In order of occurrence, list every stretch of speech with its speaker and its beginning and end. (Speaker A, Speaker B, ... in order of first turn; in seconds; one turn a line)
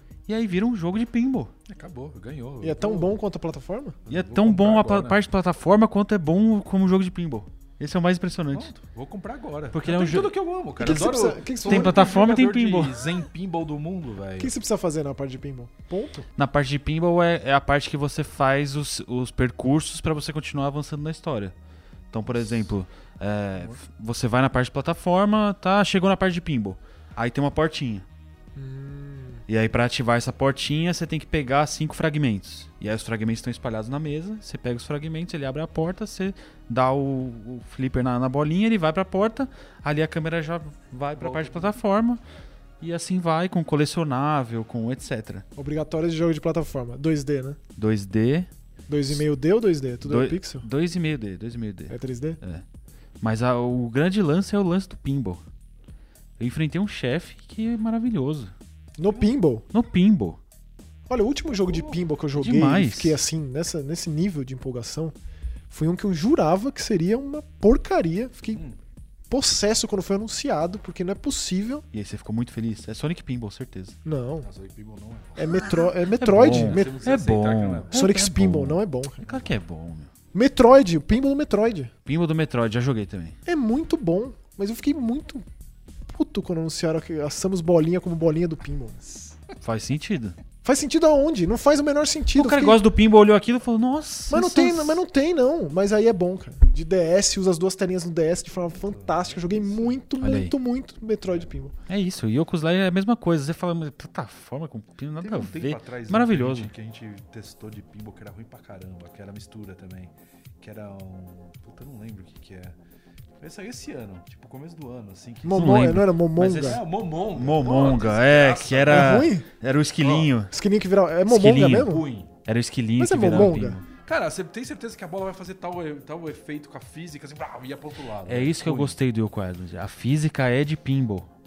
Speaker A: 0.3-1.5
Speaker B: 1.7-3.2
Speaker C: 2.6-4.0
Speaker B: 4.0-5.2
Speaker A: 4.1-8.7
Speaker B: 8.5-14.5
Speaker A: 9.7-11.1
Speaker C: 10.8-12.1
Speaker A: 11.6-13.1
Speaker C: 14.4-16.3
Speaker A: 16.4-21.5
Speaker A: 22.1-28.1
Speaker C: 28.6-29.4
Speaker A: 29.5-42.2
Speaker B: 41.1-41.8
Speaker A: 42.8-45.4
Speaker C: 45.5-47.6
Speaker A: 47.8-48.5
Speaker C: 48.9-50.7
Speaker A: 50.0-52.6
Speaker C: 51.9-52.4
Speaker A: 53.2-55.4
Speaker A: 56.4-58.5
Speaker C: 59.0-59.6
Speaker A: 59.7-60.4
Speaker C: 61.1-65.1
Speaker B: 61.6-62.0
Speaker A: 62.4-63.2
Speaker C: 65.7-68.6
Speaker C: 69.3-71.8
Speaker A: 71.9-74.0
Speaker C: 74.0-74.5
Speaker B: 74.4-75.7
Speaker C: 75.3-77.1
Speaker A: 76.2-80.1
Speaker B: 76.3-78.1
Speaker C: 77.9-79.2
Speaker C: 80.3-81.9
Speaker A: 82.0-83.4
Speaker C: 83.5-85.5
Speaker C: 86.1-89.2
Speaker A: 89.6-90.4
Speaker C: 90.6-92.8
Speaker A: 92.3-95.0
Speaker C: 94.3-101.7
Speaker B: 98.7-100.0
Speaker A: 100.2-100.5
Speaker A: 101.9-106.7
Speaker B: 105.2-112.7
Speaker B: 113.4-119.3
Speaker C: 115.4-116.8
Speaker A: 115.6-116.1
Speaker A: 117.3-120.5
Speaker C: 118.9-119.5
Speaker B: 120.0-120.3
Speaker C: 120.5-122.0
Speaker A: 121.3-123.9
Speaker B: 121.7-122.3
Speaker C: 123.0-123.8
Speaker B: 123.4-128.9
Speaker A: 128.2-131.3